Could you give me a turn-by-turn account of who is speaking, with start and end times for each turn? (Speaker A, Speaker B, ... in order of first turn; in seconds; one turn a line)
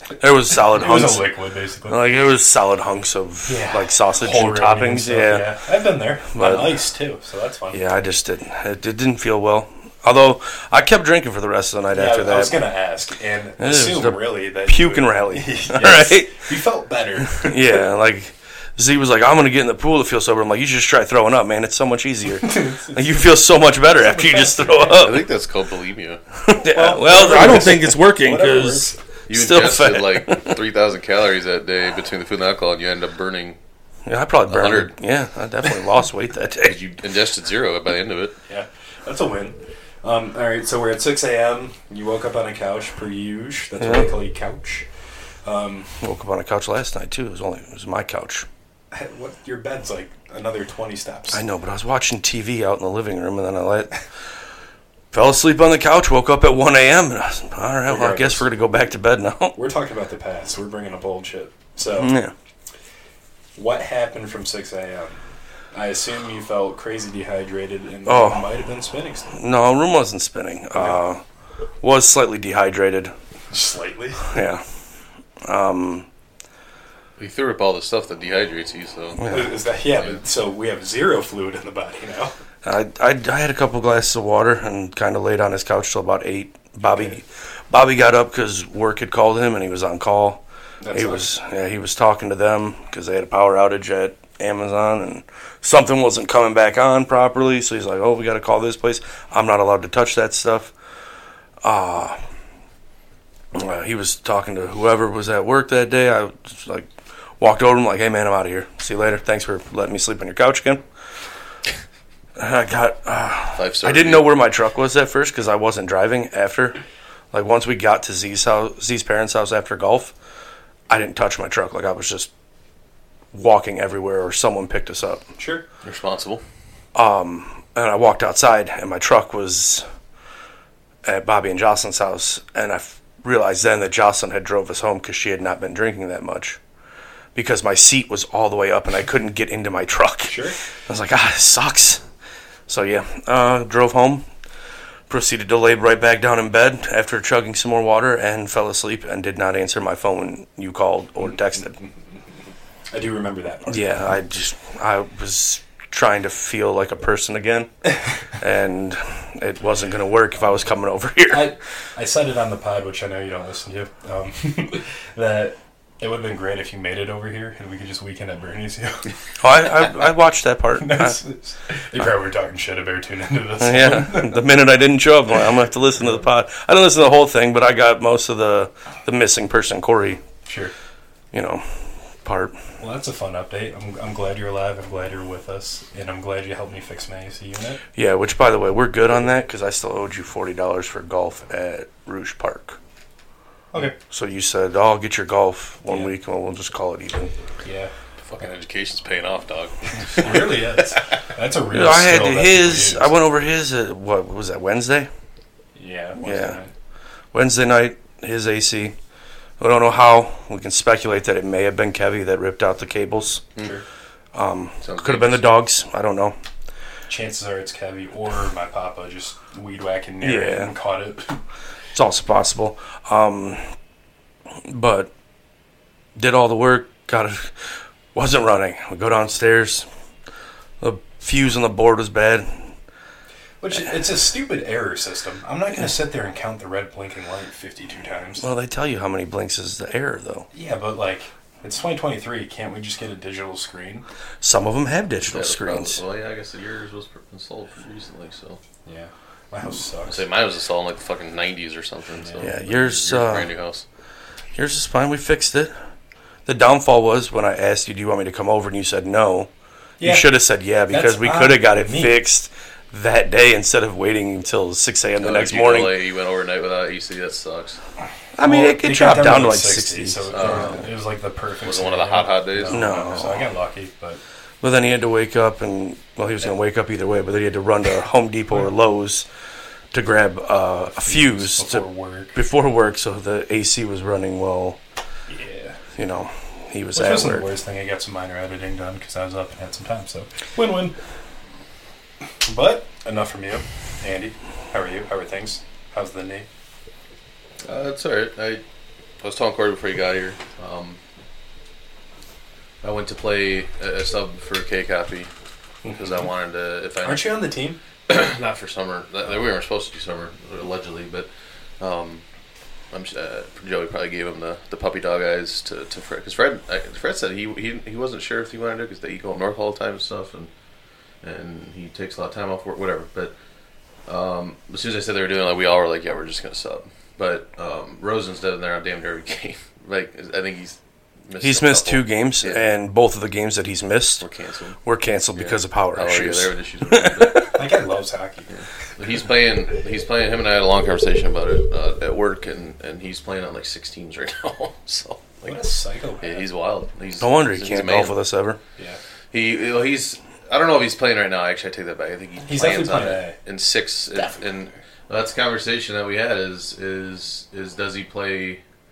Speaker A: 0.2-1.3
Speaker B: 0.5-2.0
Speaker A: 1.9-5.5
Speaker B: 3.5-7.8
Speaker A: 6.3-6.8
Speaker A: 7.7-12.6
Speaker B: 11.9-17.8
Speaker A: 13.6-16.5
Speaker A: 17.3-25.2
Speaker B: 22.4-23.0
Speaker B: 23.9-25.0
Speaker C: 24.9-26.2
Speaker A: 26.4-30.6
Speaker B: 26.6-29.0
Speaker C: 29.3-33.6
Speaker A: 34.1-36.8
Speaker C: 34.5-34.9
Speaker C: 36.6-38.4
Speaker B: 38.5-44.9
Speaker A: 43.8-44.1
Speaker B: 45.5-46.0
Speaker A: 46.0-48.5
Speaker B: 48.9-51.4
Speaker A: 51.3-54.0
Speaker A: 55.1-59.6
Speaker B: 57.9-58.4
Speaker B: 59.5-62.1
Speaker A: 61.9-62.3
Speaker B: 63.6-65.2
Speaker B: 65.7-69.3
Speaker A: 68.1-68.5
Speaker A: 69.3-71.2
Speaker A: 71.8-73.1
Speaker B: 73.5-74.3
Speaker A: 74.3-74.6
Speaker A: 75.4-76.1
Speaker C: 77.2-79.3
Speaker A: 79.2-79.5
Speaker B: 79.2-82.3
Speaker A: 82.6-100.7
Speaker B: 86.8-87.2
Speaker B: 90.8-91.3
Speaker A: 101.6-102.2
Speaker A: 103.5-110.8
Speaker A: 112.4-116.8
Speaker C: 113.5-114.3
Speaker A: 117.3-120.1
Speaker A: 120.9-122.3
Speaker A: 123.3-125.3
Speaker B: 125.4-125.7
Speaker C: 125.8-126.4
Speaker A: 126.9-129.8
Speaker A: 131.0-136.6
Speaker A: 137.3-142.0
Speaker B: 140.3-140.6
Speaker A: 142.7-144.2
Speaker A: 145.1-151.8
Speaker B: 152.9-153.8
Speaker A: 153.7-161.5
Speaker B: 161.3-169.1
Speaker A: 169.4-171.2
Speaker B: 170.8-174.4
Speaker A: 173.6-180.2
Speaker B: 180.5-180.7
Speaker A: 181.3-182.6
Speaker B: 182.8-187.8
Speaker A: 187.9-192.8
Speaker A: 193.8-197.3
Speaker B: 195.9-196.1
Speaker B: 197.6-197.9
Speaker C: 198.2-201.0
Speaker B: 200.1-203.2
Speaker A: 201.7-205.1
Speaker B: 205.8-206.7
Speaker A: 206.2-206.6
Speaker A: 207.3-209.0
Speaker A: 209.6-213.4
Speaker B: 213.6-213.8
Speaker A: 214.3-216.4
Speaker C: 214.8-215.4
Speaker B: 217.1-221.4
Speaker A: 220.2-220.7
Speaker A: 221.9-223.7
Speaker A: 224.7-225.1
Speaker A: 226.2-229.9
Speaker A: 230.8-232.7
Speaker B: 233.6-238.5
Speaker A: 238.4-240.5
Speaker B: 240.5-244.1
Speaker A: 244.4-246.0
Speaker C: 245.3-248.6
Speaker B: 248.9-250.2
Speaker C: 250.1-253.8
Speaker B: 252.2-252.5
Speaker A: 252.4-253.5
Speaker A: 254.6-255.7
Speaker A: 256.5-259.5
Speaker B: 260.0-260.3
Speaker A: 260.0-265.9
Speaker B: 260.9-262.2
Speaker C: 265.2-267.8
Speaker A: 268.4-270.8
Speaker B: 268.4-274.2
Speaker C: 270.3-270.8
Speaker C: 271.6-272.9
Speaker A: 272.7-273.5
Speaker A: 274.6-279.3
Speaker A: 279.9-284.8
Speaker B: 280.9-282.4
Speaker B: 285.3-285.8
Speaker A: 286.0-287.5
Speaker B: 286.9-291.0
Speaker B: 292.4-296.5
Speaker C: 297.6-298.6
Speaker C: 299.2-301.0
Speaker C: 302.8-305.3
Speaker B: 305.8-306.3
Speaker C: 305.9-307.4
Speaker B: 307.0-307.8
Speaker C: 308.1-311.3
Speaker C: 311.8-312.2
Speaker C: 312.9-320.5
Speaker C: 321.2-323.4
Speaker C: 324.1-332.6
Speaker A: 331.4-334.3
Speaker C: 334.2-334.8
Speaker A: 334.9-337.5
Speaker C: 335.3-337.6
Speaker B: 337.5-338.5
Speaker C: 338.5-345.6
Speaker B: 345.4-346.5
Speaker C: 346.2-348.2
Speaker A: 347.2-348.6
Speaker C: 349.3-358.6
Speaker B: 352.4-353.4
Speaker B: 354.1-354.6